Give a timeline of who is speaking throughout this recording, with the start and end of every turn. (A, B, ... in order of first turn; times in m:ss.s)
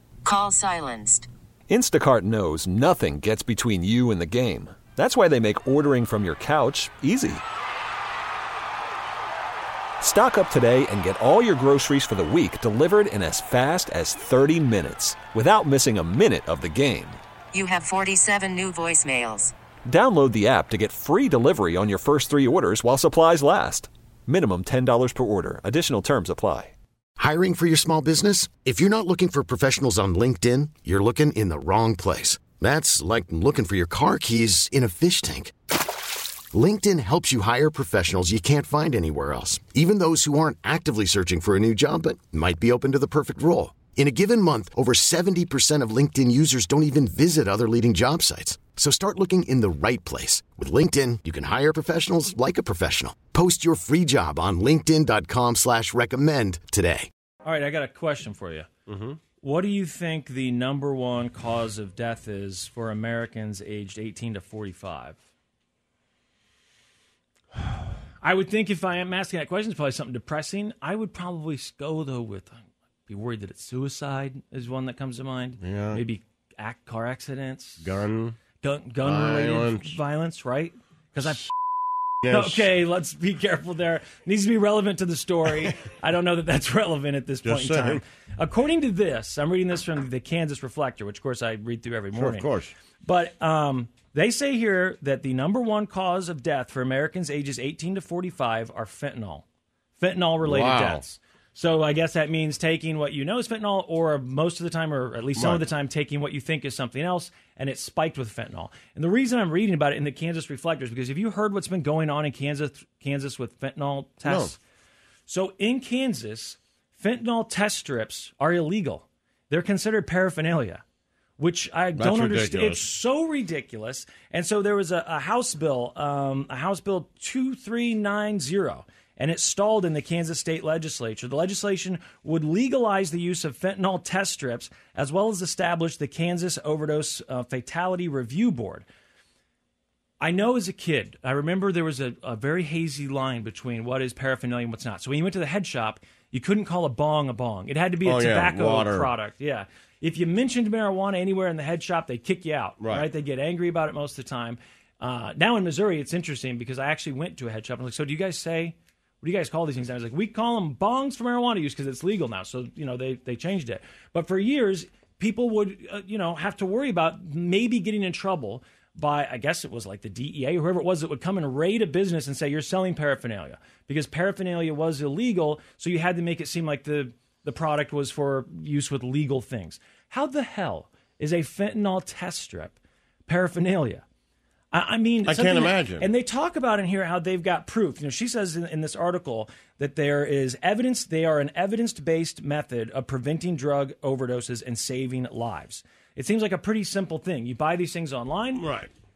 0:00.2-0:01.3 A
0:01.7-0:07.4 B
0:10.0-0:17.2 B
0:17.5-0:19.5 A
0:19.9-0:26.7 B
0:27.2-0:35.5 C
0:36.5-0:57.1 C
0:57.4-0:58.7 D
0:58.9-0:59.2 E
0:59.4-1:05.2 D
1:08.2-1:17.8 D
1:15.6-1:16.0 E
1:17.8-1:18.4 E
1:18.6-1:21.5 D
1:19.0-1:20.0 E
1:22.2-1:22.7 E
1:22.3-1:32.5 D
1:27.4-1:28.0 E
1:32.2-1:32.7 E
1:33.0-1:39.4 D
1:40.0-1:54.6 D
1:40.4-1:41.0 E
1:45.4-1:45.6 E
1:54.2-1:54.5 E
1:55.3-2:00.8 D
2:01.4-2:18.9 D
2:02.0-2:02.8 E
2:20.2-3:04.0 D
2:28.0-2:29.1 E
2:32.8-2:33.0 E
3:04.7-3:18.6 D
3:05.3-3:06.1 E
3:18.6-3:18.9 E